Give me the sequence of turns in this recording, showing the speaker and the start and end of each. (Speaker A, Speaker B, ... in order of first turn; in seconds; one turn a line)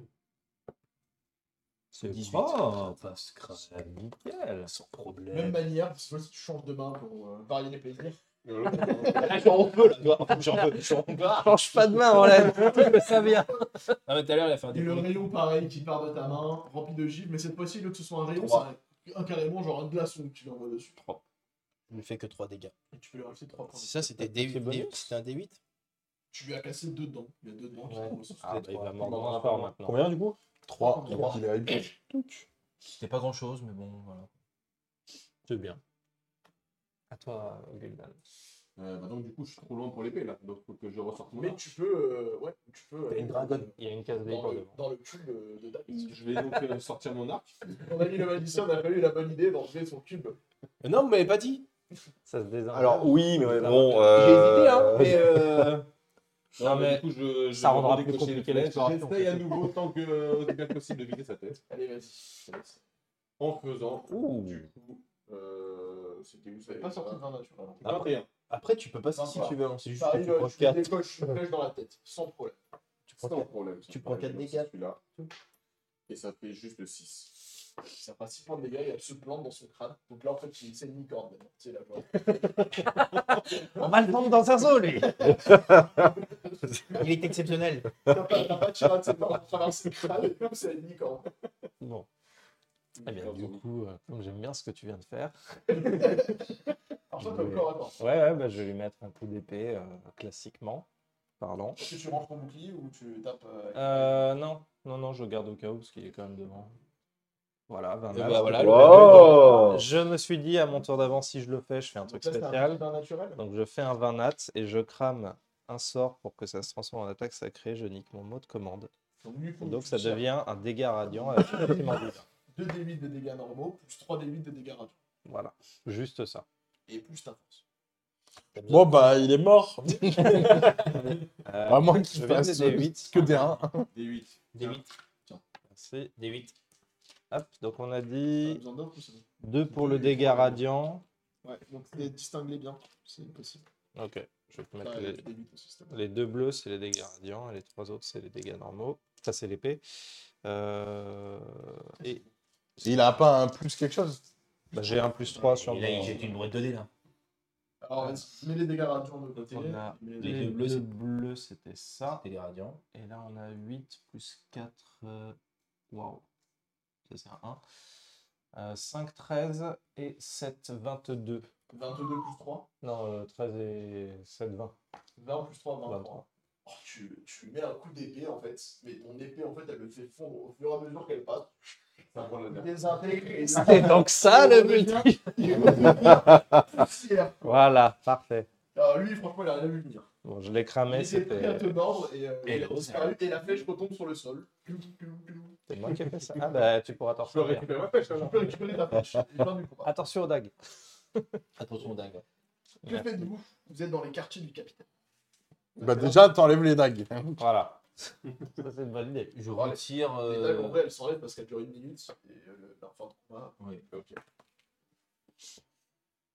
Speaker A: 1.9-2.9
Speaker B: 2.0-4.0
Speaker A: 3.7-4.7
Speaker B: 4.7-5.7
Speaker C: 5.3-8.2
Speaker D: 8.4-9.4
Speaker C: 8.8-9.2
Speaker B: 9.0-15.2
Speaker A: 11.2-13.6
Speaker C: 12.4-13.3
Speaker C: 14.7-21.0
Speaker B: 21.9-22.7
Speaker C: 22.9-24.3
Speaker B: 23.7-25.6
Speaker A: 24.2-25.1
Speaker C: 26.3-28.6
Speaker A: 27.9-30.1
Speaker D: 29.0-29.7
Speaker E: 29.8-30.4
Speaker F: 30.6-32.4
Speaker C: 30.8-31.4
Speaker B: 32.9-34.3
Speaker A: 35.5-35.8
Speaker A: 37.1-38.2
Speaker D: 38.8-41.6
Speaker C: 41.3-46.3
Speaker D: 43.1-43.5
Speaker A: 43.5-44.8
Speaker D: 46.0-47.7
Speaker C: 47.6-50.4
Speaker B: 50.8-51.6
Speaker A: 52.2-54.5
Speaker E: 52.7-55.8
Speaker B: 54.1-55.9
Speaker D: 56.6-61.6
Speaker A: 56.6-59.4
Speaker C: 61.7-62.8
Speaker D: 63.4-67.2
Speaker C: 66.6-67.8
Speaker D: 67.8-68.3
Speaker B: 67.8-71.0
Speaker C: 69.2-72.6
Speaker D: 69.3-69.6
Speaker B: 73.1-75.3
Speaker D: 73.2-75.1
Speaker D: 76.1-77.3
Speaker C: 78.0-83.0
Speaker A: 82.7-85.5
Speaker C: 83.7-84.2
Speaker C: 84.9-86.1
Speaker E: 85.4-85.9
Speaker B: 86.9-87.9
Speaker C: 88.1-91.3
Speaker A: 91.8-92.1
Speaker D: 93.0-93.6
Speaker A: 93.0-96.3
Speaker C: 95.7-96.5
Speaker C: 97.1-98.0
Speaker A: 98.0-100.8
Speaker A: 101.4-101.9
Speaker C: 101.8-104.3
Speaker A: 103.7-106.7
Speaker A: 107.7-112.8
Speaker B: 108.1-109.5
Speaker E: 108.5-109.8
Speaker C: 108.7-109.8
Speaker C: 112.0-113.4
Speaker A: 113.3-118.9
Speaker C: 119.2-120.3
Speaker A: 119.6-122.2
Speaker C: 121.1-124.9
Speaker A: 125.2-126.4
Speaker C: 126.9-127.6
Speaker A: 128.5-129.1
Speaker F: 128.7-130.9
Speaker A: 130.1-133.5
Speaker F: 131.7-133.9
Speaker D: 133.9-134.8
Speaker B: 134.5-134.8
Speaker A: 135.7-136.5
Speaker A: 137.3-138.6
Speaker C: 138.4-140.6
Speaker A: 139.4-141.0
Speaker C: 141.4-143.6
Speaker A: 143.9-145.2
Speaker C: 144.8-146.0
Speaker A: 145.9-149.8
Speaker A: 150.4-152.2
Speaker F: 152.8-154.2
Speaker A: 154.7-156.2
Speaker C: 155.3-156.2
Speaker B: 155.6-156.9
Speaker C: 157.8-160.6
Speaker A: 158.0-158.3
Speaker A: 159.4-162.2
Speaker B: 160.2-160.9
Speaker B: 162.2-162.8
Speaker A: 162.9-165.4
Speaker A: 165.9-166.2
Speaker A: 167.1-167.6
Speaker A: 168.5-171.5
Speaker C: 171.7-172.7
Speaker A: 172.8-174.7
Speaker C: 175.2-181.8
Speaker A: 175.9-176.2
Speaker D: 182.1-182.8
Speaker C: 182.5-187.6
Speaker A: 183.5-186.4
Speaker A: 187.4-188.5
Speaker C: 188.7-190.1
Speaker A: 190.2-191.8
Speaker C: 190.9-195.6
Speaker B: 192.4-193.2
Speaker A: 195.7-197.7
Speaker D: 197.3-198.9
Speaker C: 198.1-200.0
Speaker A: 199.8-200.6
Speaker B: 201.6-202.2
Speaker A: 202.8-203.3
Speaker C: 202.8-204.9
Speaker C: 205.8-206.2
Speaker F: 205.8-207.4
Speaker A: 207.4-207.8
Speaker A: 208.5-209.7
Speaker B: 209.3-210.9
Speaker C: 210.1-214.1